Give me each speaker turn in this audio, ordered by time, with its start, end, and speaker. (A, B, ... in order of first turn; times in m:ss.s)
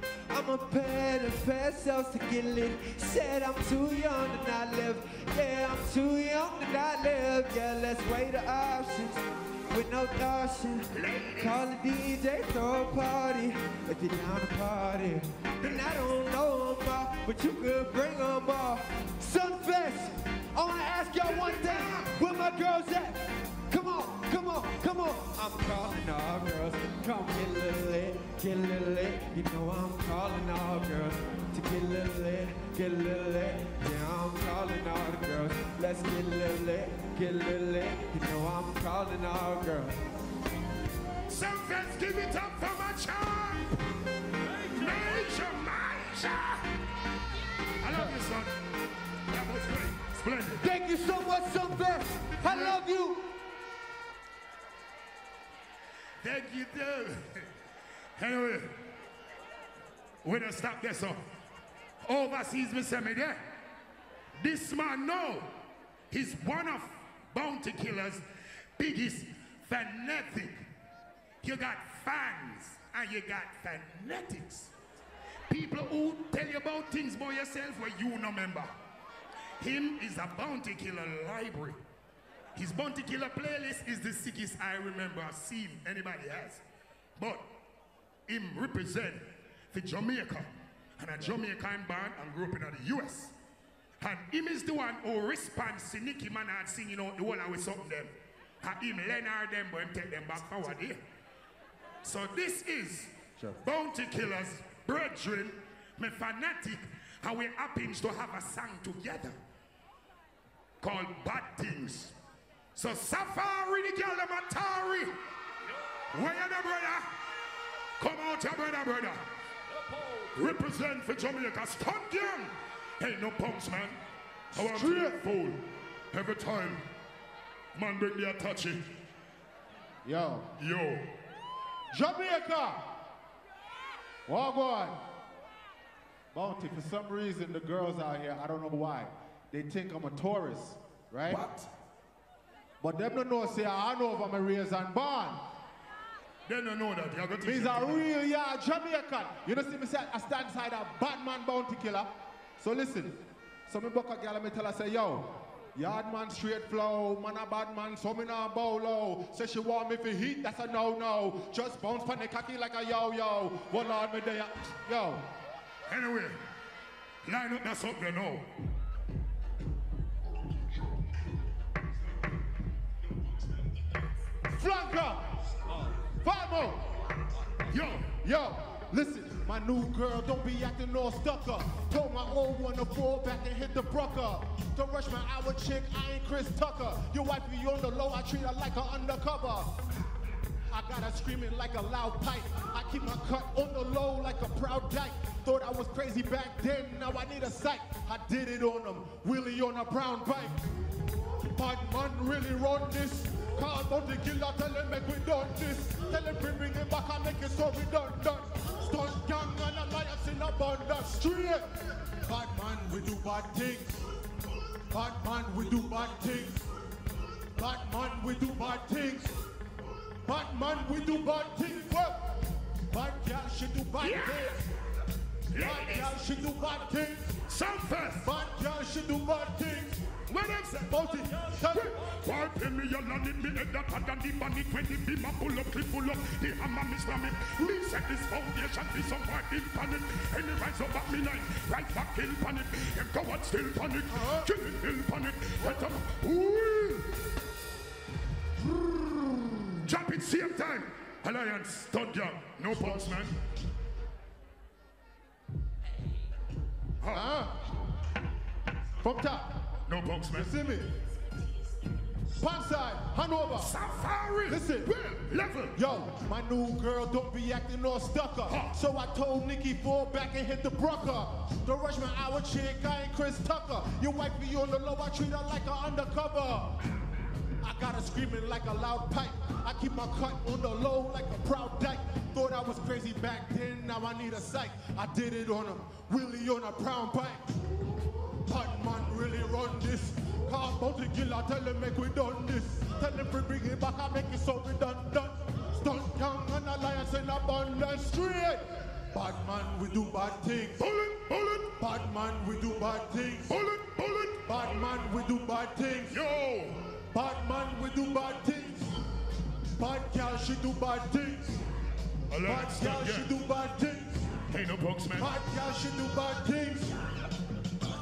0:00.3-0:40.0 A
0:10.9-0:11.6 B
0:15.6-0:15.9 B
0:21.2-0:22.2 B
0:41.3-0:43.8 B
0:44.6-0:46.6 B
0:47.8-0:48.6 B
0:49.3-0:50.7 B
0:50.6-0:53.3 A
0:52.4-0:52.8 B
0:56.2-0:57.5 B
0:58.2-0:58.8 B
1:00.2-1:01.2 B
1:02.0-1:03.4 B
1:04.4-1:05.5 B
1:06.1-1:08.2 B
1:08.8-1:10.6 B
1:11.4-1:14.7 B
1:15.5-1:18.7 B
1:19.6-1:21.8 B
1:22.5-1:26.6 B
1:27.2-1:27.4 B
1:28.3-1:33.3 B
1:34.0-1:41.0 B
1:42.0-1:49.4 B
1:50.8-1:52.1 B
1:52.7-1:55.1 B
1:56.1-1:57.1 B
1:58.0-1:59.2 B
2:00.3-2:04.0 B
2:04.5-2:06.8 B
2:04.6-2:05.2 C
2:07.7-2:08.9 B
2:10.0-2:10.5 C
2:10.6-2:11.1 B
2:11.9-2:12.9 C
2:14.3-2:15.0 C
2:16.3-2:21.4 C
2:21.3-2:21.7 B
2:22.8-2:25.4 C
2:26.5-2:28.0 B
2:27.4-2:45.2 C
2:45.9-2:46.4 B
2:47.2-2:48.5 B
2:54.5-2:55.3 C
2:56.2-2:57.0 C
2:57.7-2:58.1 B
2:58.2-3:09.7 C
3:10.7-3:20.6 C
3:21.5-3:31.7 C
3:32.2-3:33.9 C
3:34.9-3:36.6 C
3:37.5-3:39.3 C
3:40.2-3:42.3 C
3:42.9-3:44.6 C
3:44.0-3:44.6 B
3:45.5-3:46.2 B
3:45.6-3:47.3 C
3:47.5-3:48.3 B
3:48.2-3:50.0 C
3:50.3-4:07.1 B
3:50.9-3:51.9 C
4:04.1-4:04.5 C
4:09.8-4:13.3 B
4:12.7-4:13.2 C
4:17.0-4:17.3 B
4:17.1-4:17.5 C
4:19.0-4:19.5 C
4:19.9-4:20.5 B
4:20.3-4:20.9 C
4:22.4-4:23.7 C
4:23.6-4:25.8 B
4:24.5-4:24.9 C
4:25.7-4:36.8 C
4:28.5-4:28.8 B
4:37.6-4:47.5 C
4:48.4-5:00.8 C
5:00.8-5:01.8 B
5:01.8-5:03.5 C
5:03.5-5:04.5 B
5:04.4-5:06.2 C
5:06.1-5:06.9 B
5:07.1-5:08.9 C
5:09.8-5:11.6 C
5:12.3-5:13.3 B
5:12.4-5:14.3 C
5:14.5-5:15.3 B
5:15.1-5:16.9 C